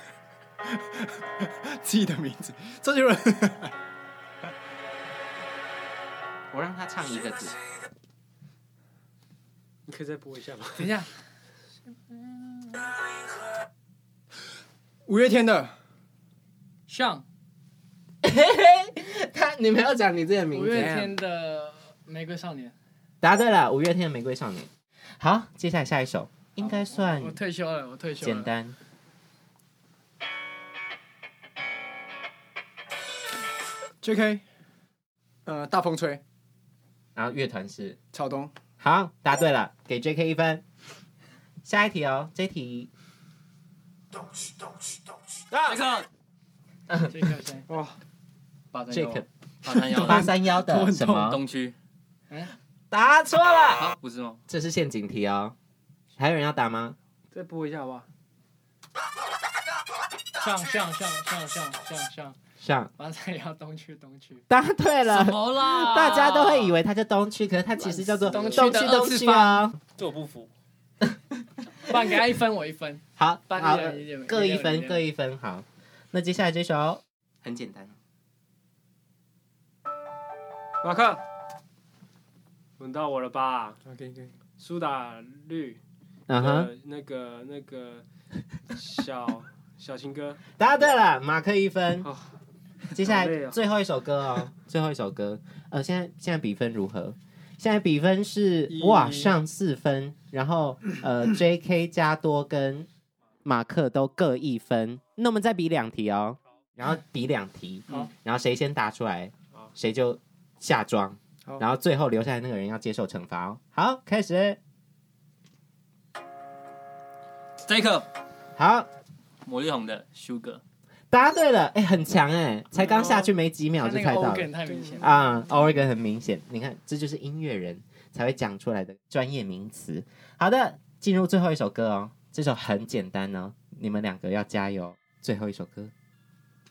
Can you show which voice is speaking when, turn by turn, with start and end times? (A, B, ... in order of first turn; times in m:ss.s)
0:00.7-0:03.7 A
0:06.5-0:07.6 B
0:09.9-0:10.8 C
0:10.8-0:11.1 D
0:11.9-0:12.9 D
0:15.0-0:15.8 A
0:16.9-0:17.2 D
0:18.2-0:21.0 B
0:20.5-0:22.7 D
0:20.8-0:21.1 A
0:23.2-0:27.4 B
0:26.6-0:28.5 D
0:28.2-0:28.8 B
0:34.0-0:34.4 A
0:35.4-0:36.2 A
0:37.1-0:38.0 B
0:38.1-0:38.5 A
0:38.8-0:40.6 B
0:41.6-0:42.9 B
0:45.6-0:46.1 E
0:46.9-0:47.2 B
0:47.1-0:47.7 D
0:47.7-0:48.0 C
0:48.7-0:51.8 E
0:48.9-0:51.4 B
0:50.1-0:50.8 A
0:52.9-0:54.0 B
0:53.6-0:54.4 E
0:54.5-0:55.5 B
0:56.2-0:57.0 B
0:57.3-0:58.1 C
1:00.4-1:02.4 D
1:02.6-1:02.9 B
1:03.0-1:04.4 D
1:04.5-1:09.8 B
1:05.1-1:06.7 D
1:08.2-1:09.7 D
1:10.0-1:10.5 E
1:11.8-1:15.0 D
1:13.2-1:18.0 B
1:20.8-1:21.2 C
1:22.8-1:23.8 C
1:23.9-1:24.3 A
1:24.6-1:25.8 C
1:26.3-1:26.7 B
1:26.4-1:28.0 C
1:28.7-1:30.4 C
1:30.6-1:32.1 B
1:32.9-1:42.9 B
1:32.9-1:33.6 C
1:38.7-1:39.4 A
1:43.4-1:54.6 B
1:57.6-1:58.1 E
1:58.6-1:58.9 B
1:59.4-2:00.6 E
2:01.1-2:15.9 B
2:03.8-2:05.2 D
2:04.8-2:05.2 C